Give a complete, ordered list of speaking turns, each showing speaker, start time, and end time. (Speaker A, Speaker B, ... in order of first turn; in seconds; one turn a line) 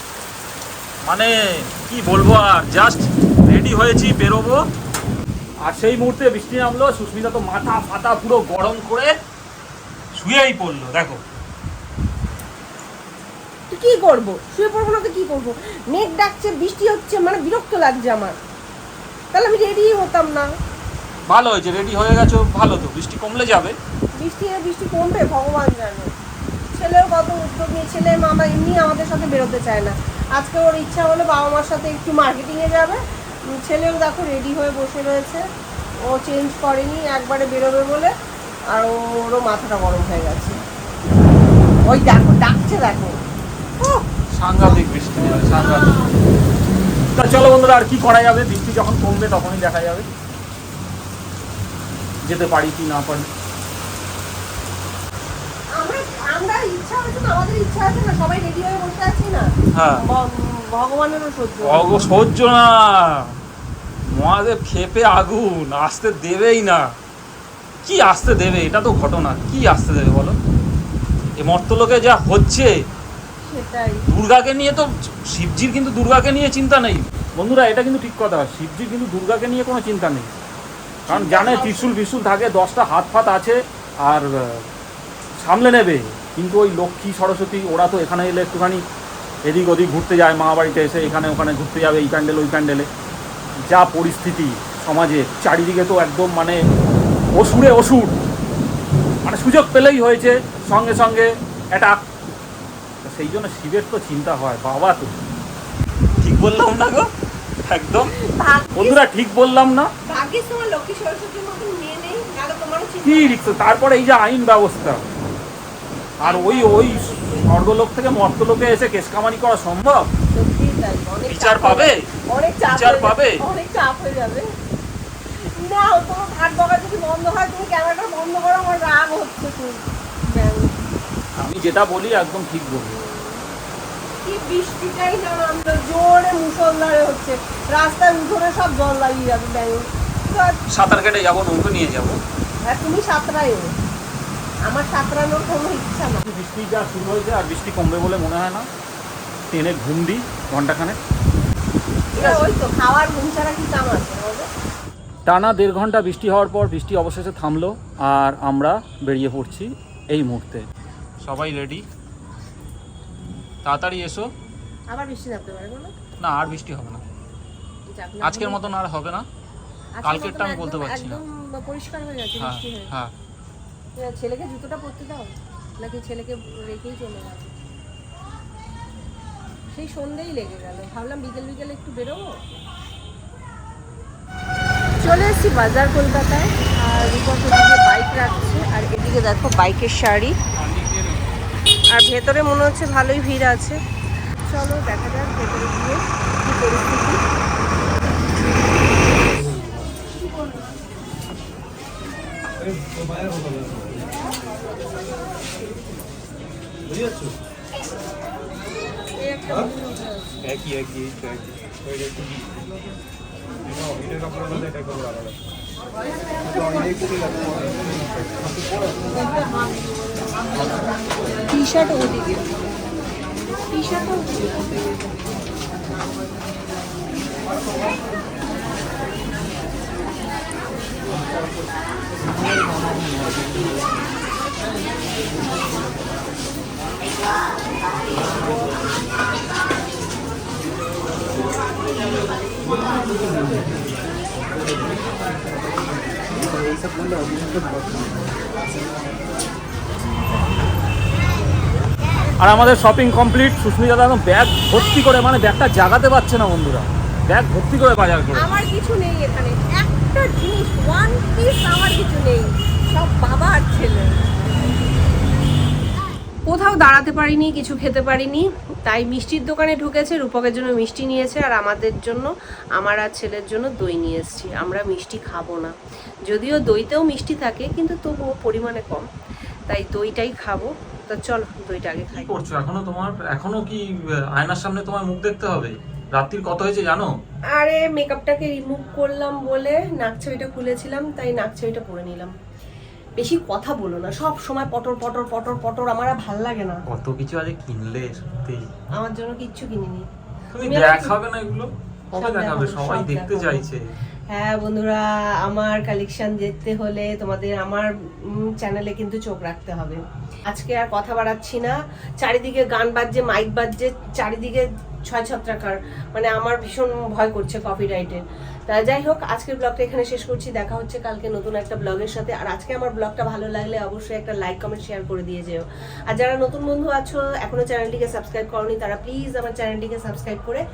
Speaker A: 1.1-4.6
Speaker A: 5.6-9.1
Speaker A: 10.2-11.2
Speaker B: 13.7-18.4
Speaker B: 19.3-20.5
Speaker A: 21.3-23.8
Speaker B: 24.1-26.1
Speaker B: 26.7-33.0
Speaker B: 33.5-35.4
Speaker B: 36.0-38.1
Speaker B: 38.7-40.6
Speaker B: 41.9-43.2
Speaker B: 43.8-44.0
Speaker A: 44.4-46.0
Speaker B: 44.6-46.1
Speaker A: 47.1-50.1
Speaker A: 52.2-53.3
Speaker B: 55.8-62.2
Speaker A: 59.8-60.0
Speaker A: 61.6-63.4
Speaker A: 64.1-66.9
Speaker A: 67.8-70.4
Speaker A: 71.4-72.7
Speaker B: 73.5-74.0
Speaker A: 74.1-80.3
Speaker B: 81.1-81.9
Speaker A: 81.1-84.7
Speaker A: 85.4-88.8
Speaker A: 89.5-92.9
Speaker A: 93.7-96.6
Speaker A: 97.3-98.2
Speaker A: 99.3-102.0
Speaker A: 103.0-105.2
Speaker A: 106.2-107.1
Speaker A: 107.7-108.1
Speaker B: 108.2-109.0
Speaker A: 108.7-109.9
Speaker B: 110.1-113.5
Speaker A: 113.0-115.0
Speaker A: 116.2-120.1
Speaker B: 116.2-117.5
Speaker B: 120.3-124.5
Speaker A: 121.3-122.0
Speaker A: 122.7-123.4
Speaker B: 125.3-130.7
Speaker A: 131.4-133.0
Speaker B: 132.9-133.5
Speaker B: 134.2-140.6
Speaker A: 140.7-142.2
Speaker B: 142.7-143.7
Speaker B: 144.7-146.2
Speaker A: 146.2-148.7
Speaker A: 149.5-151.0
Speaker B: 152.2-154.5
Speaker A: 152.2-152.5
Speaker A: 155.3-160.7
Speaker A: 161.2-161.9
Speaker A: 163.6-164.3
Speaker B: 164.9-165.9
Speaker A: 166.2-167.0
Speaker B: 167.9-168.7
Speaker A: 168.2-169.3
Speaker B: 170.0-172.9
Speaker A: 170.0-171.2
Speaker A: 172.4-173.1
Speaker B: 174.0-177.5
Speaker B: 179.7-182.3
Speaker B: 185.0-190.3
Speaker A: 190.6-191.3
Speaker B: 191.9-193.8
Speaker B: 194.5-197.2
Speaker B: 209.2-210.4
Speaker C: 210.4-212.6
Speaker C: 214.1-215.4
Speaker B: 216.3-217.7
Speaker B: 219.1-219.4
Speaker B: 220.6-222.5
Speaker B: 223.7-224.9
Speaker A: 252.4-258.5
Speaker B: 258.4-264.7
Speaker B: 266.5-275.7
Speaker B: 276.3-279.1
Speaker B: 279.7-282.4
Speaker A: 282.1-287.1
Speaker B: 287.5-292.3
Speaker B: 293.2-296.8
Speaker A: 296.9-298.7
Speaker B: 299.0-300.0
Speaker A: 300.5-303.8
Speaker B: 300.6-301.2
Speaker B: 302.2-303.6
Speaker B: 304.3-330.6